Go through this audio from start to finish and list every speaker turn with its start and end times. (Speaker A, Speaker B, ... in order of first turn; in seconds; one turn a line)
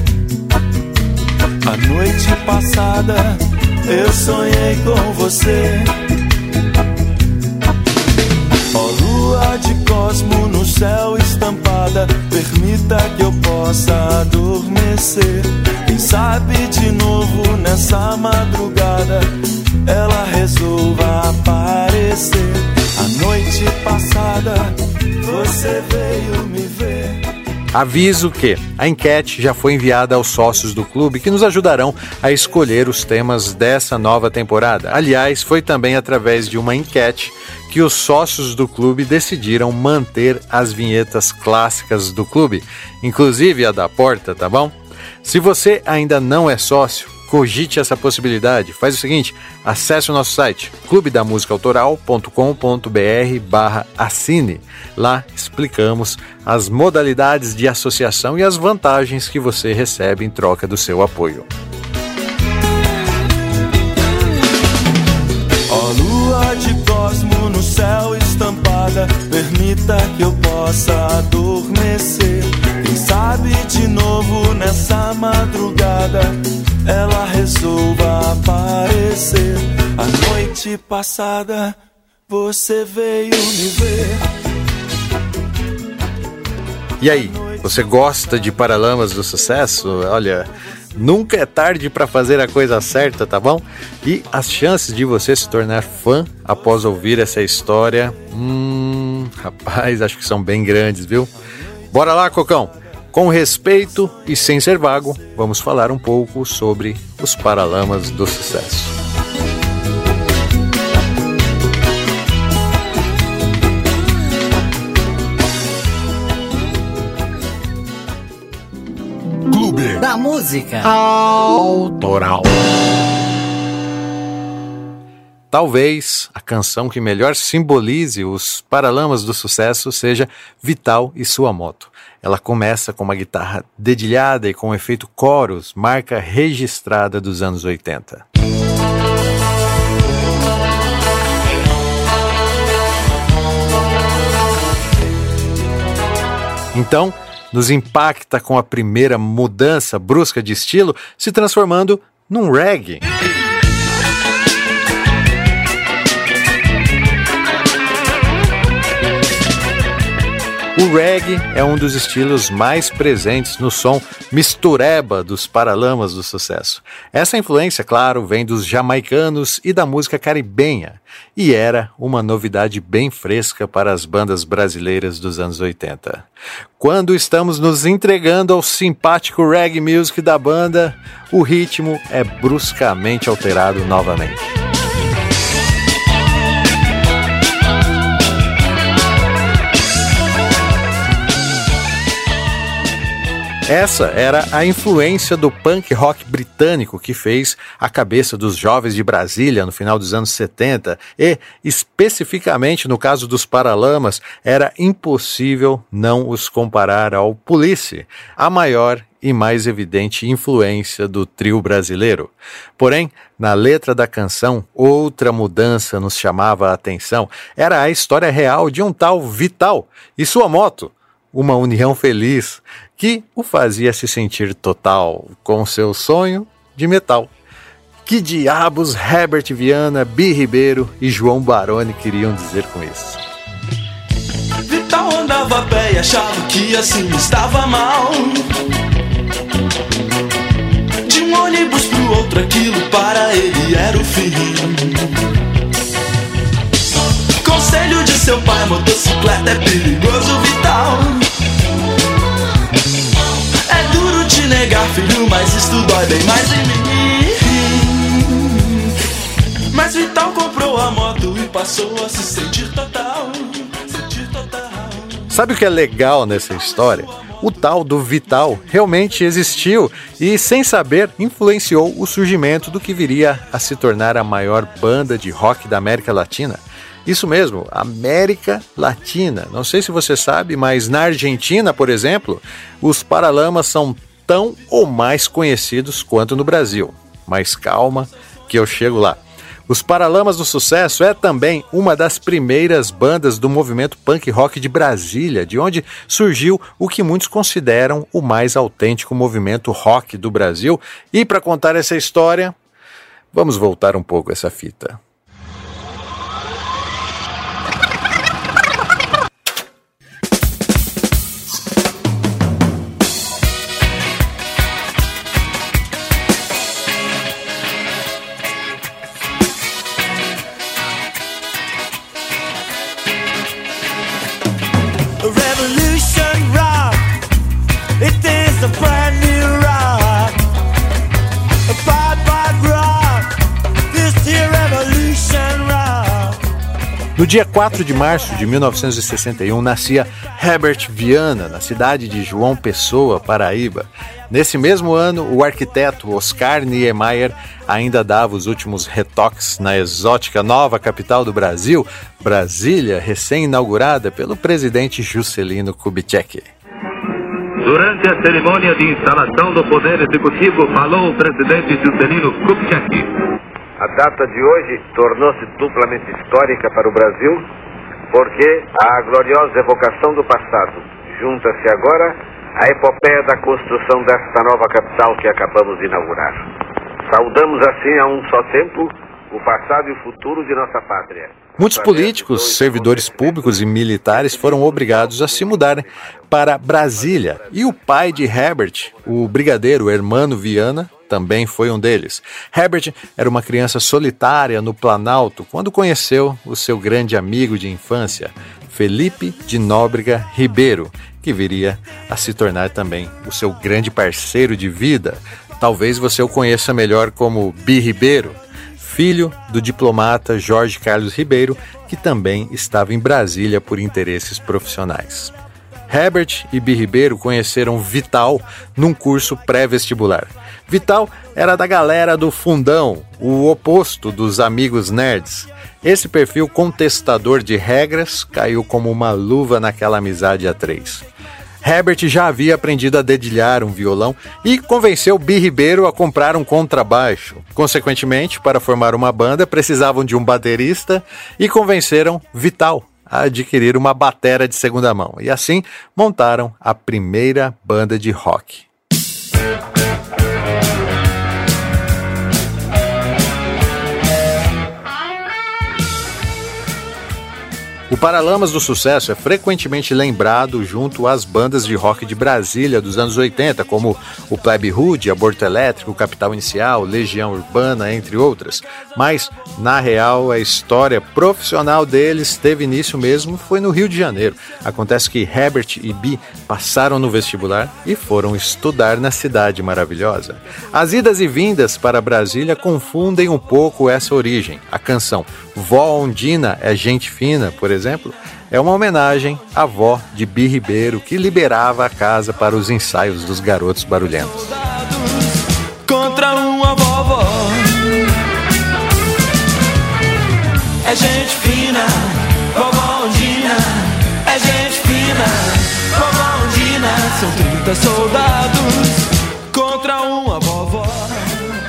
Speaker A: 1.6-5.9
Speaker A: 8.7-19.3
Speaker A: 19.9-27.2
Speaker B: 27.7-61.5
Speaker A: 65.7-81.8
Speaker A: 82.3-84.2
Speaker B: 87.0-101.3
Speaker A: 87.1-87.6
Speaker B: 101.9-109.0
Speaker C: 119.5-122.5
Speaker B: 125.5-138.2
Speaker B: 146.7-153.1
Speaker B: 160.8-184.6
Speaker B: 193.7-227.3
Speaker B: 228.1-233.2
Speaker A: 234.7-238.5
Speaker A: 241.1-245.0
Speaker A: 247.4-251.3
Speaker A: 253.7-258.9
Speaker A: 259.7-265.3
Speaker B: 265.3-302.6
Speaker A: 267.1-267.4
Speaker B: 303.3-305.0
Speaker A: 325.2-327.0
Speaker A: 328.0-330.4
Speaker A: 331.7-333.4
Speaker A: 333.9-336.4
Speaker B: 337.2-356.5
Speaker D: 357.6-363.1
Speaker E: 363.8-367.5
Speaker E: 368.1-376.5
Speaker E: 377.1-383.5
Speaker B: 381.6-415.3
Speaker E: 384.1-385.9
Speaker B: 415.9-431.1
Speaker B: 431.6-448.7
Speaker B: 457.9-494.6
Speaker A: 494.6-497.9
Speaker A: 500.8-511.6